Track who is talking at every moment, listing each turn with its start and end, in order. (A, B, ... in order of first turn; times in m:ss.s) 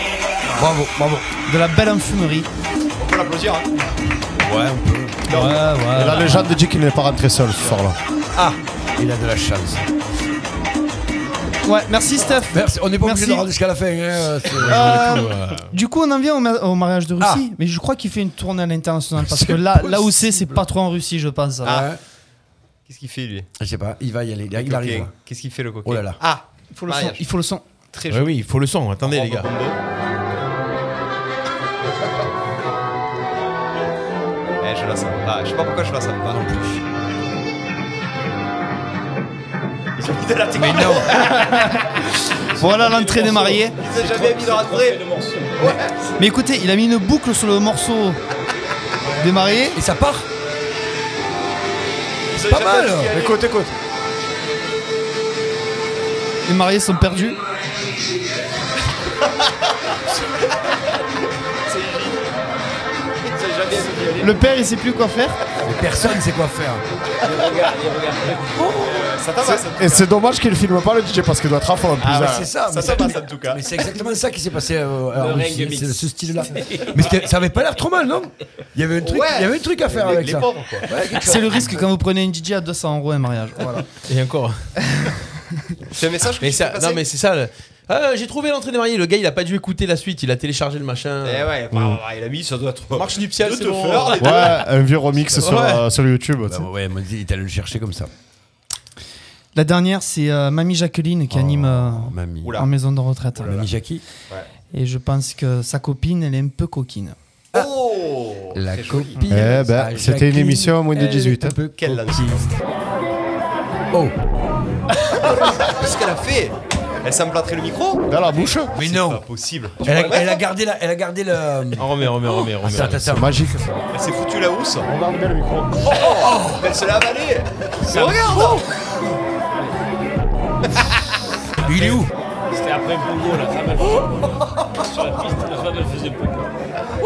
0:00.6-0:01.3 A
0:01.5-0:02.5 B
0:03.0-0:03.7 C
0:04.4-0:05.5 A
0:05.3-0:06.5 B
0:05.3-0:05.6 C
0:05.9-0:08.0 D
0:08.4-0:09.9 A
0:11.6-0:13.5 B
0:12.5-0:14.9 A
0:14.6-0:15.7 E
0:14.6-0:21.8 B
0:17.2-0:17.4 A
0:19.3-0:20.6 A
0:21.6-0:21.9 C
0:21.6-0:22.0 A
0:22.9-0:23.5 C
0:23.6-0:25.1 A
0:24.6-0:27.3 C
0:25.8-0:26.2 A
0:26.7-0:27.6 B
0:27.9-0:28.4 C
0:28.1-0:29.5 E
0:29.0-0:29.8 C
0:34.6-0:36.4 C
0:36.2-0:36.8 A
0:40.0-0:42.0 C
0:40.6-0:41.3 A
0:41.2-0:41.9 B
0:42.6-0:43.8 B
0:42.6-0:46.0 C
0:43.9-0:44.8 A
0:44.7-0:45.5 F
0:46.2-0:48.2 B
0:49.2-0:49.8 B
0:49.7-0:50.3 A
0:52.3-0:53.4 C
0:52.4-0:53.2 A
0:53.1-0:53.7 D
0:56.5-0:57.4 B
1:01.7-1:02.2 C
1:03.2-1:04.4 C
1:04.2-1:05.4 B
1:05.6-1:06.8 A
1:07.2-1:08.8 F
1:08.6-1:09.1 A
1:08.8-1:10.1 C
1:09.4-1:12.5 D
1:12.0-1:13.9 C
1:12.1-1:21.8 A
1:15.2-1:17.2 F
1:19.0-1:21.4 C
1:21.2-1:23.9 B
1:24.1-1:24.7 E
1:24.9-1:25.2 B
1:25.9-1:27.1 C
1:26.4-1:31.5 E
1:31.2-1:34.7 C
1:31.7-1:32.0 D
1:32.9-1:34.6 E
1:34.2-1:36.7 D
1:35.4-1:35.9 E
1:36.5-1:38.1 A
1:39.6-1:43.7 B
1:41.5-1:42.5 A
1:42.4-1:42.7 C
1:43.4-1:44.0 A
1:44.7-1:47.2 B
1:47.5-1:49.2 C
1:48.5-1:52.5 A
1:49.3-1:51.6 D
1:51.8-1:52.5 C
1:55.2-1:58.1 C
1:58.1-1:58.8 D
1:58.8-1:59.2 A
1:58.8-2:00.4 C
1:59.8-2:03.4 A
2:01.8-2:03.3 E
2:03.0-2:03.9 D
2:03.9-2:04.9 C
2:04.8-2:06.0 D
2:05.8-2:08.6 C
2:06.2-2:06.6 A
2:07.8-2:08.6 F
2:11.6-2:12.1 A
2:12.5-2:16.5 F